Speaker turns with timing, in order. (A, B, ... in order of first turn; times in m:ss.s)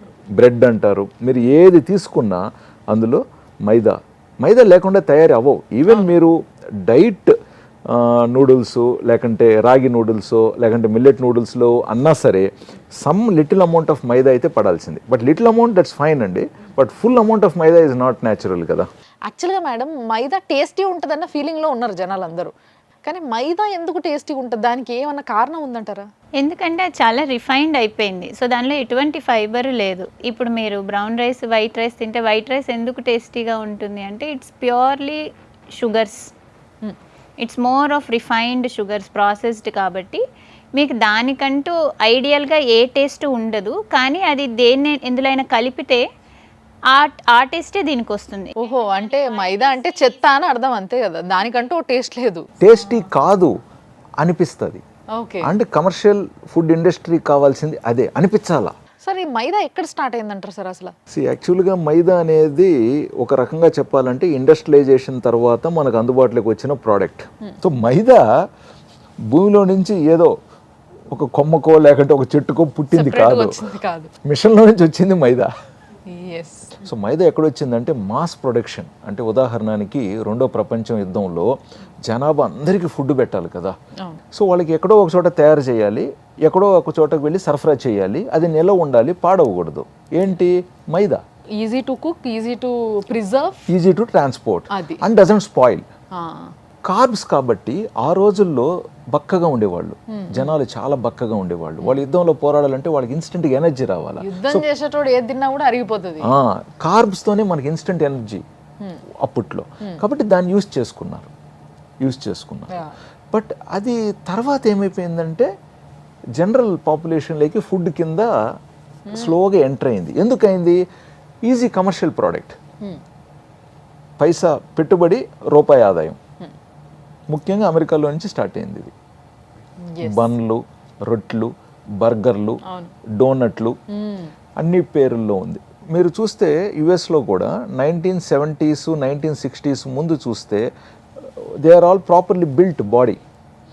0:00.4-0:07.4 A
0:05.9-0:06.2 B
0:07.9-0:12.5 A
0:13.0-0:18.9 A
0:19.3-0:22.5 B
0:23.0-0:26.1 B
0:26.4-0:35.2 C
0:35.8-0:36.3 C
0:37.4-0:40.2 C
0:40.8-0:46.0 C
0:46.9-0:48.5 C
0:48.6-0:53.0 B
0:52.6-0:53.6 A
0:54.2-0:54.8 A
0:55.2-0:55.5 B
0:55.4-0:58.7 A
0:59.0-1:00.9 B
1:01.1-1:08.2 A
1:09.3-1:10.3 A
1:11.1-1:13.6 A
1:12.9-1:14.1 B
1:14.2-1:15.5 A
1:16.1-1:16.8 B
1:16.8-1:21.5 A
1:22.0-1:23.8 A
1:24.3-1:31.2 A
1:31.6-1:33.6 B
1:33.7-1:35.8 A
1:34.7-1:35.0 B
1:36.1-1:36.5 B
1:36.9-1:44.7 A
1:40.1-1:40.5 B
1:44.2-1:46.3 B
1:46.2-1:48.4 A
1:49.2-1:51.3 A
1:52.0-1:52.8 A
1:53.3-1:55.5 A
1:56.4-1:58.3 A
1:59.1-1:59.4 B
1:59.1-2:00.8 A
2:01.5-2:02.6 A
2:04.2-2:06.2 A
2:07.3-2:08.9 A
2:09.9-2:10.3 B
2:10.0-2:12.6 A
2:12.7-2:12.9 B
2:13.2-2:13.8 A
2:13.9-2:14.3 B
2:14.6-2:20.6 A
2:21.2-2:23.2 A